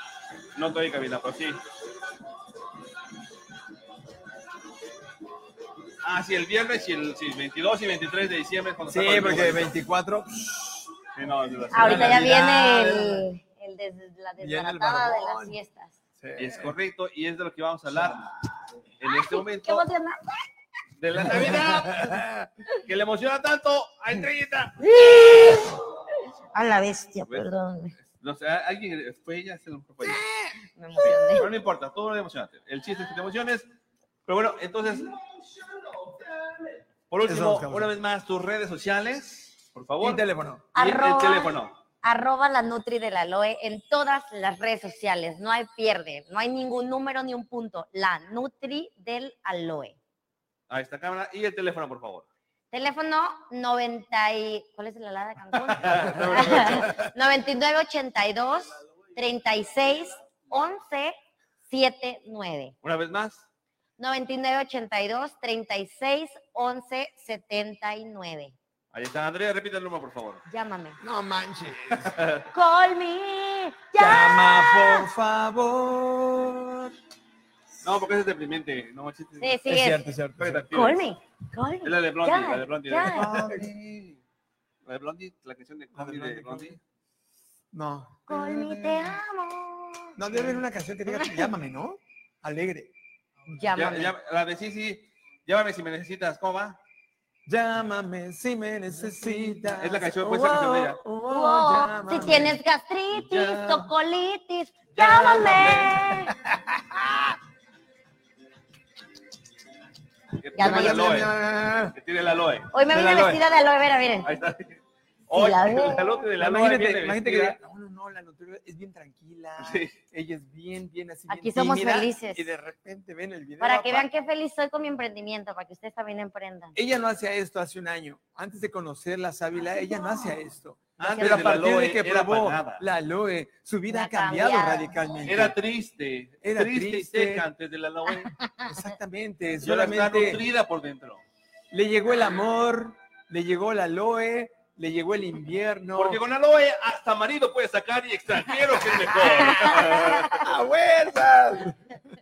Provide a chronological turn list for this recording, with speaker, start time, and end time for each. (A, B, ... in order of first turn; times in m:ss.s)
0:00.5-0:01.6 A
0:06.0-0:09.7 A
0:08.9-0:10.9 B
0:11.1-0:12.4 A
0:11.7-0:13.2 B
0:11.7-0:16.0 C
0:14.4-0:15.6 B
0:16.2-0:16.7 B
0:16.4-0:18.3 A
0:19.0-0:19.8 A
0:19.0-0:20.2 C
0:21.0-0:25.6 A
0:21.2-0:22.4 B
0:24.8-0:25.8 C
0:26.5-0:28.0 C
0:28.0-0:30.2 A
0:30.0-0:31.1 B
0:30.8-0:31.5 C
0:31.0-0:33.6 A
0:34.2-0:35.2 A
0:37.1-0:40.2 A
0:37.2-0:37.9 B
0:40.0-0:40.6 B
0:40.7-0:50.0 C
0:40.8-0:41.7 A
0:50.7-0:52.2 A
0:52.7-1:01.1 C
0:55.5-0:57.1 A
1:01.7-1:02.7 C
1:02.8-1:03.5 A
1:04.0-1:08.5 C
1:08.9-1:10.4 A
1:10.5-1:11.0 C
1:11.0-1:12.2 B
1:11.9-1:12.5 A
1:12.5-1:15.1 C
1:14.0-1:16.9 B
1:17.8-1:19.6 A
1:19.4-1:20.0 C
1:19.6-1:20.9 B
1:20.4-1:21.0 A
1:20.7-1:23.3 C
1:21.8-1:24.2 A
1:23.1-1:23.7 B
1:24.8-1:26.8 A
1:25.9-1:26.8 B
1:27.7-1:28.8 B
1:28.3-1:31.5 C
1:30.2-1:32.9 B
1:33.5-1:34.1 C
1:33.7-1:36.8 A
1:37.4-1:42.6 B
1:39.6-1:41.0 A
1:41.2-1:46.4 C
1:43.2-1:43.8 A
1:45.0-1:47.4 B
1:45.2-1:45.8 A
1:50.4-1:51.3 A
1:50.6-1:51.2 C
1:50.6-1:52.0 B
1:51.9-1:52.7 A
1:52.7-1:54.3 C
1:52.9-1:53.4 B
1:54.2-1:57.6 A
1:55.3-1:56.2 C
1:56.4-2:04.1 B
1:59.6-1:59.9 A
2:01.3-2:02.5 C
2:03.6-2:06.8 C
2:06.7-2:15.6 B
2:11.0-2:12.8 A
2:11.0-2:11.6 C
2:13.9-2:14.9 C
2:15.2-2:18.3 A
2:16.4-2:17.4 B
2:18.4-2:18.9 C
2:18.6-2:20.4 B
2:19.6-2:21.2 A
2:21.7-2:26.2 B
2:26.0-2:30.4 A
2:28.8-2:32.0 B
2:29.4-2:30.4 C